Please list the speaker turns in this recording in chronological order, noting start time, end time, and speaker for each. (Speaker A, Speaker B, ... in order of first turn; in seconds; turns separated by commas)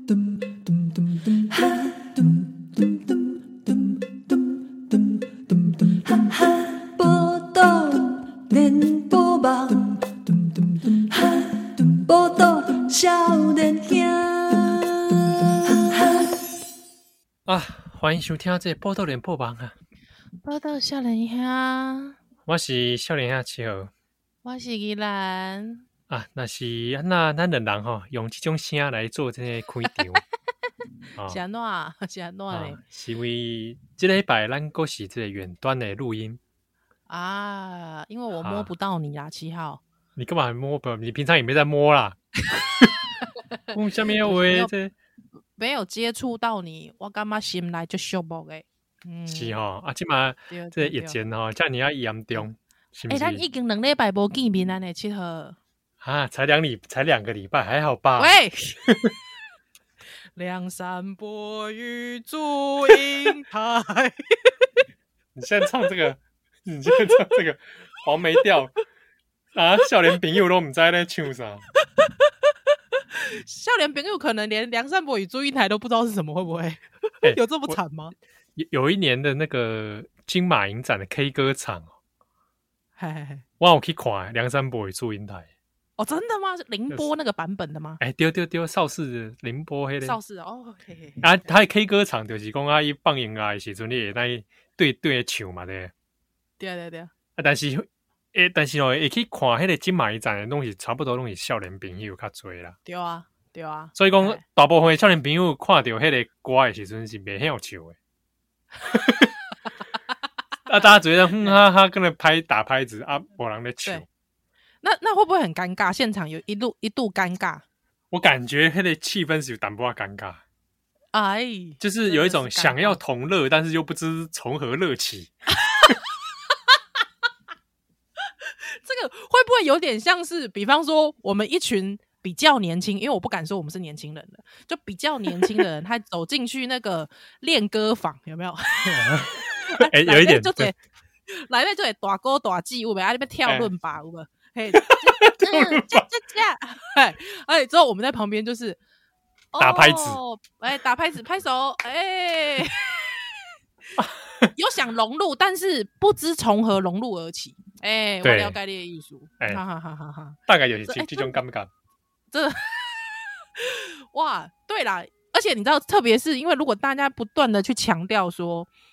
Speaker A: 1.3-16.4, Speaker B: 17.4-19.7, Speaker C: 20.4-22.2, Speaker B: 22.4-23.9, Speaker C: 24.4-25.8, Speaker B: 26.1-30.2, Speaker B: 31.1-31.4, Speaker C: 31.3-32.8, Speaker B: 32.5-36.4, Speaker C: 37.1-39.8, Speaker B: 38.3-38.7, Speaker B: 40.2-42.9, Speaker B: 43.7-44.9, Speaker C: 44.2-44.7, Speaker C: 45.6-49.5, Speaker B: 49.3-53.4, Speaker C: 50.5-51.2, Speaker C: 53.1-55.6, Speaker B: 56.0-58.3, Speaker C: 58.2-58.8, Speaker B: 58.9-59.1, Speaker C: 60.4-64.7, Speaker B: 65.3-68.7, Speaker B: 69.5-71.6, Speaker C: 73.1-78.1, Speaker B: 77.2-77.8, Speaker B: 78.6-81.9, Speaker C: 83.0-83.4, Speaker B: 83.6-85.5, Speaker C: 86.0-88.0, Speaker B: 88.0-90.2, Speaker C: 90.0-91.4, Speaker B: 91.2-95.9, Speaker C: 96.6-97.1, Speaker B: 97.4-102.8, Speaker C: 102.8-104.4, Speaker B: 104.0-108.0, Speaker B: 108.8-109.3, Speaker B: 110.7-114.1, Speaker C: 114.8-117.6, Speaker B: 118.1-120.4, Speaker C: 121.1-123.0, Speaker B: 121.8-125.3, Speaker C: 125.6-126.0, Speaker C: 128.7-140.8, Speaker B: 138.8-140.7, Speaker C: 141.3-148.8, Speaker B: 143.4-143.7, Speaker B: 144.7-146.0, Speaker C: 149.5-153.1, Speaker B: 149.6-150.2, Speaker B: 154.0-154.5, Speaker C: 154.5-161.3, Speaker B: 158.2-158.6, Speaker B: 160.5-161.7, Speaker C: 162.3-168.7